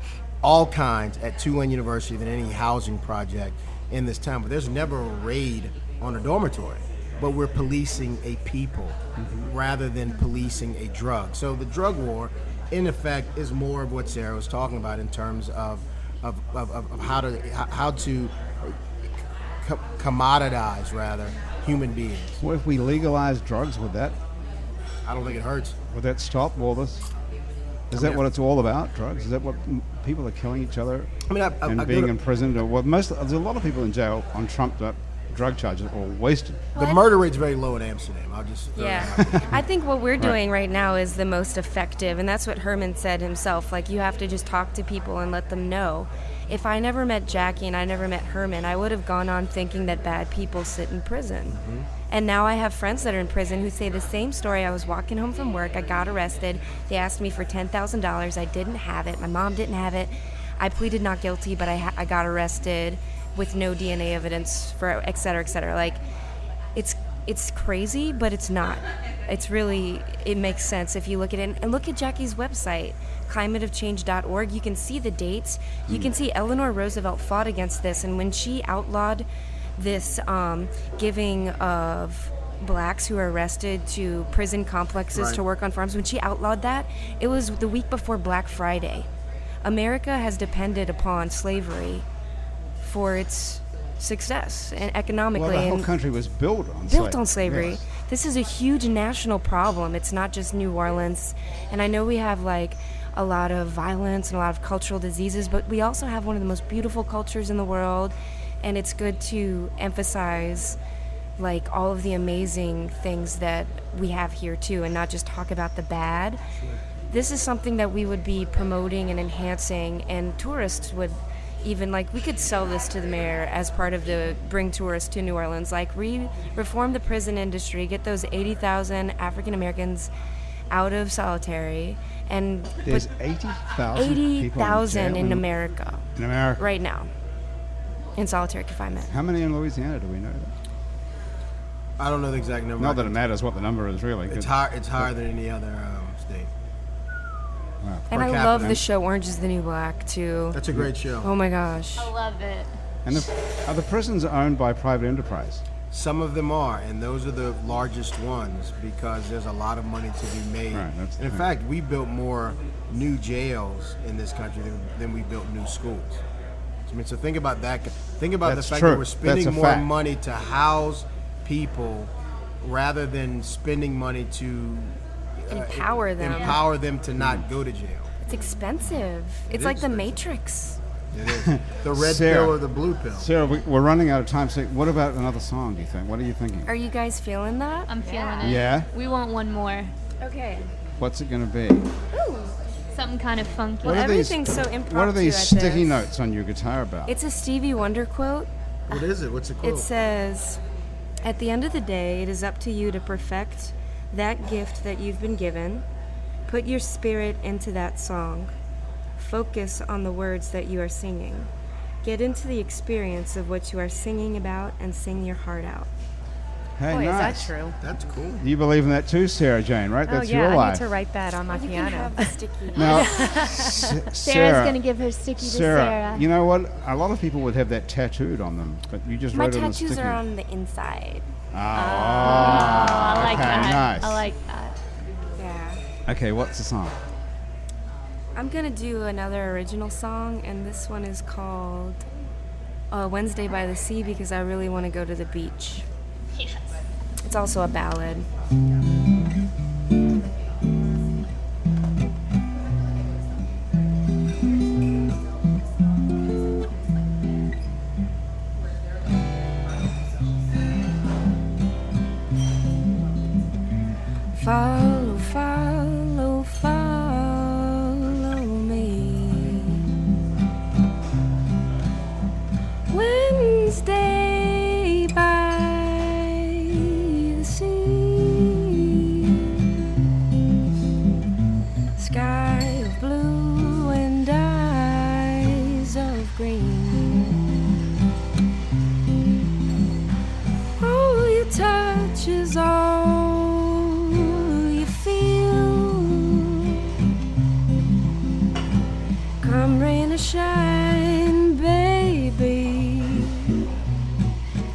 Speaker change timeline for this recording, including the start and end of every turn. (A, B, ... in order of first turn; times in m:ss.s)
0:00.4-0:18.8 A
0:09.2-0:09.5 B
0:19.6-0:22.4 A
0:22.4-0:24.2 B
0:25.0-0:25.8 A
0:25.9-0:27.0 B
0:27.9-0:31.1 B
0:27.9-0:28.2 A
0:31.3-0:32.1 A
0:31.7-0:36.7 B
0:36.7-0:39.6 A
0:38.8-1:06.0 C
0:39.2-0:39.6 B
0:51.5-0:51.9 A
1:06.7-1:29.1 C
1:25.1-1:25.4 A
1:29.6-1:32.1 C
1:32.8-1:35.9 C
1:35.4-1:37.8 B
1:36.9-1:50.8 C
1:51.4-1:56.4 C
1:57.1-2:10.1 C
2:10.7-2:13.1 C
2:12.8-2:15.4 B
2:14.0-2:16.1 C
2:16.2-2:16.6 B
2:16.6-2:17.1 C
2:18.2-2:19.1 C
2:19.1-2:20.5 B
2:22.0-2:23.2 A
2:22.8-2:24.5 B
2:24.3-2:26.5 A
2:27.8-2:28.8 B
2:28.1-2:30.6 C
2:28.1-2:28.8 A
2:30.5-2:31.3 A
2:31.2-2:32.1 C
2:32.0-2:32.7 D
2:33.0-2:35.6 B
2:35.9-2:46.2 A
2:40.7-2:41.5 B
2:46.9-2:58.1 A
2:48.4-2:49.9 B
2:55.5-2:56.6 C
2:58.2-3:00.8 C
2:59.5-3:00.3 A
3:01.1-3:03.3 A
3:01.4-3:02.6 B
3:03.1-3:06.7 B
3:06.7-3:08.6 C
3:07.9-3:09.9 D
3:08.4-3:08.9 B
3:10.2-3:10.7 C
3:11.0-3:11.9 B
3:12.1-3:12.6 C
3:12.9-3:14.0 D
3:13.8-3:17.1 B
3:13.8-3:16.0 C
3:17.1-3:18.5 C
3:18.9-3:19.9 A
3:19.6-3:20.6 C
3:21.2-3:25.8 C
3:26.5-3:28.5 C
3:29.2-3:31.5 C
3:32.0-3:35.9 C
3:36.8-3:37.5 B
3:36.9-3:37.8 E
3:37.8-3:38.4 A
3:38.4-3:40.8 B
3:40.1-3:44.0 E
3:41.5-3:43.4 C
3:42.8-3:44.8 B
3:42.9-3:43.3 D
3:44.2-3:46.2 D
3:45.4-3:50.2 B
3:49.3-3:51.3 C
3:51.5-3:54.3 B
3:51.7-3:53.1 E
3:52.2-3:54.7 D
3:55.4-3:55.8 C
3:56.1-3:57.0 B
3:58.4-4:02.0 C
4:02.9-4:05.9 C
4:07.2-4:08.3 C
4:24.4-4:29.8 C
4:32.9-4:39.4 C
4:42.0-4:47.4 C
4:50.8-4:56.9 C
4:59.4-5:03.6 C